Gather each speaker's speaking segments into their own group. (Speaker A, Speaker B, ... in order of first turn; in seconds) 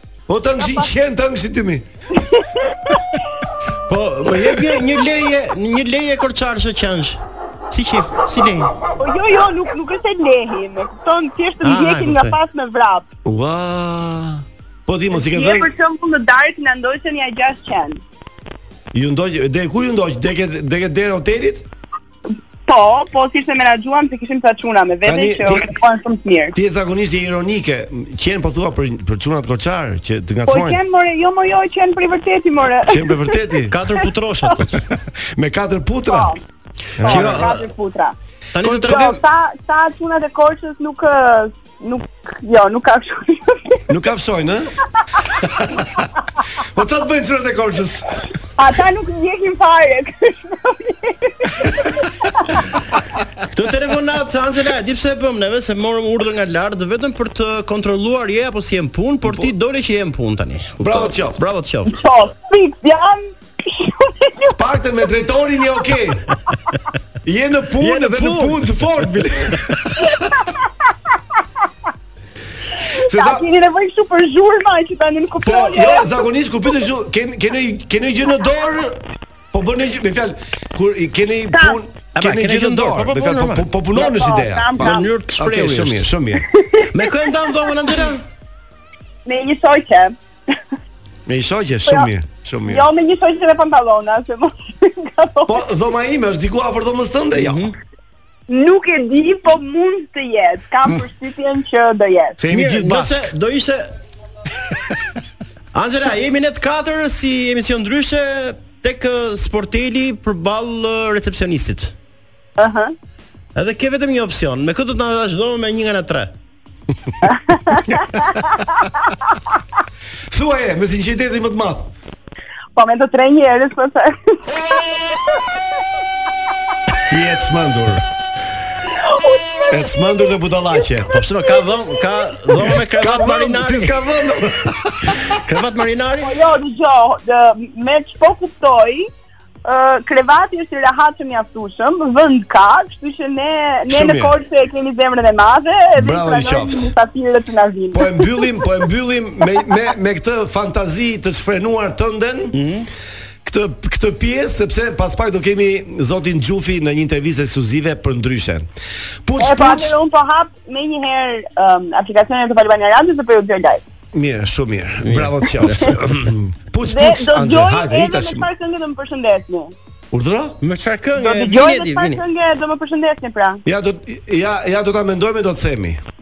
Speaker A: 0.3-1.9, 13.2-15.7, 18.9-21.6, 25.0-25.7, 26.5-30.8, 32.8-33.8, 34.7-36.4, 37.0-37.6, 38.6-39.0, 43.9-44.7, 45.4-45.9, 46.6-48.2, 59.2-59.5, 60.8-61.4, 64.5-66.4, 67.2-70.1, 73.0-73.5, 75.4-86.5, 91.3-92.9, 95.5-97.7, 102.4-103.3, 120.3-121.9, 127.1-128.0, 129.7-131.2, 132.6-135.4, 143.9-144.3, 146.0-146.9, 147.9-152.6, 153.4-158.7, 159.3-160.0, 164.1-168.5, 170.1-170.6, 173.7-176.0
Speaker B: 0.6-0.9, 2.2-3.2, 9.0-13.1, 15.1-18.0, 22.7-26.6, 30.5-33.5, 36.1-36.4, 37.0-38.1, 38.7-43.8, 48.6-52.5, 61.9-64.6, 70.1-70.5, 72.8-76.2, 81.5-81.8, 83.9-85.1, 86.6-86.9, 89.3-90.2, 92.7-95.7, 98.5-102.4, 112.6-113.0, 117.3-118.0, 122.8-125.4, 129.0-129.8, 136.2-139.1, 139.7-148.6, 159.4-163.8, 166.8-169.7, 171.2-173.6
Speaker C: 3.9-8.7, 11.6-12.4, 33.7-34.8, 37.0-37.6, 38.5-39.2, 53.5-62.0, 67.8-68.7, 82.2-83.7, 84.8-86.1, 86.9-88.2, 97.3-97.7, 102.5-104.0, 105.7-112.0, 113.5-116.3, 131.1-134.0, 135.2-136.3, 152.5-152.9, 165.0-166.0, 170.6-172.2